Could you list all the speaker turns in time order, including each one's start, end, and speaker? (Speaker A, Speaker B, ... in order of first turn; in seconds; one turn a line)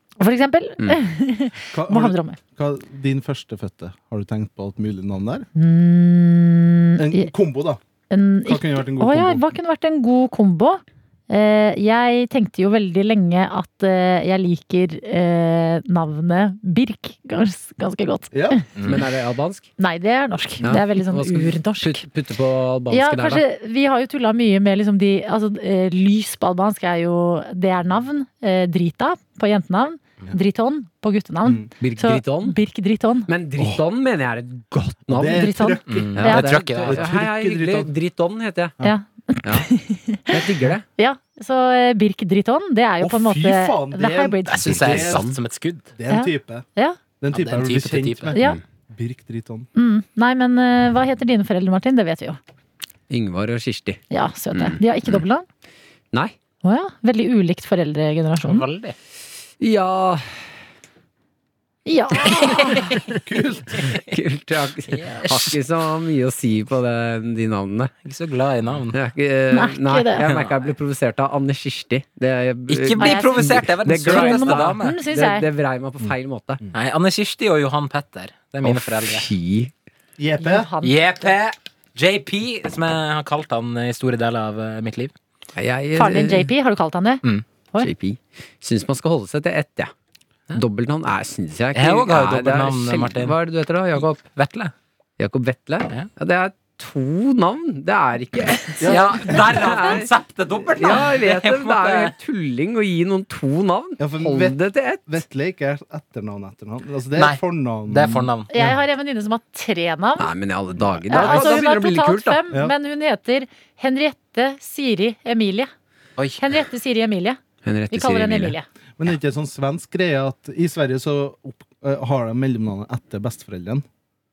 Speaker A: 0.2-2.4
Speaker B: 1.7-5.5
Speaker A: 5.5-7.3
Speaker B: 7.0-7.8
Speaker A: 8.1-18.6
Speaker B: 8.4-9.4
Speaker B: 18.3-18.6
Speaker C: 18.8-19.0
Speaker D: 18.8-19.7
Speaker A: 19.8-22.0
Speaker D: 20.6-23.4
Speaker A: 22.9-33.3
Speaker D: 31.8-32.6
Speaker D: 33.3-35.5
Speaker B: 35.1-37.9
Speaker A: 35.3-36.5
Speaker C: 35.9-37.2
Speaker D: 36.2-38.8
Speaker A: 38.8-40.4
Speaker D: 40.3-40.9
Speaker A: 41.0-44.7
Speaker B: 43.0-45.3
Speaker C: 44.5-45.9
Speaker D: 44.7-45.4
Speaker B: 45.9-46.7
Speaker A: 46.1-47.0
Speaker B: 47.2-49.7
Speaker C: 47.3-48.4
Speaker A: 48.3-48.6
Speaker A: 49.7-52.4
Speaker D: 53.1-54.0
Speaker A: 54.1-55.5
Speaker A: 56.6-58.7
Speaker C: 58.5-59.0
Speaker D: 59.6-60.4
Speaker A: 61.9-63.0
Speaker C: 62.5-62.9
Speaker B: 63.2-63.8
Speaker D: 63.8-67.9
Speaker C: 64.9-65.5
Speaker C: 68.0-69.0
Speaker D: 68.9-76.6
Speaker A: 69.5-70.2
Speaker C: 70.2-70.5
Speaker C: 72.7-75.0
Speaker A: 73.0-75.5
Speaker C: 76.7-79.3
Speaker D: 78.6-79.7
Speaker B: 80.2-80.7
Speaker A: 80.4-81.0
Speaker C: 80.8-85.1
Speaker D: 85.5-86.5
Speaker A: 86.0-87.9
Speaker D: 87.8-89.9
Speaker D: 90.5-94.2
Speaker C: 91.7-93.4
Speaker C: 94.0-94.7
Speaker D: 95.2-100.1
Speaker B: 98.8-99.2
Speaker C: 98.8-102.1
Speaker D: 100.7-105.2
Speaker B: 104.0-108.8
Speaker C: 107.2-108.5
Speaker A: 108.5-110.3
Speaker D: 110.2-112.4
Speaker B: 111.0-111.6
Speaker A: 111.1-115.7
Speaker A: 116.4-117.4
Speaker D: 117.6-118.5
Speaker A: 117.9-118.6
Speaker B: 119.0-123.8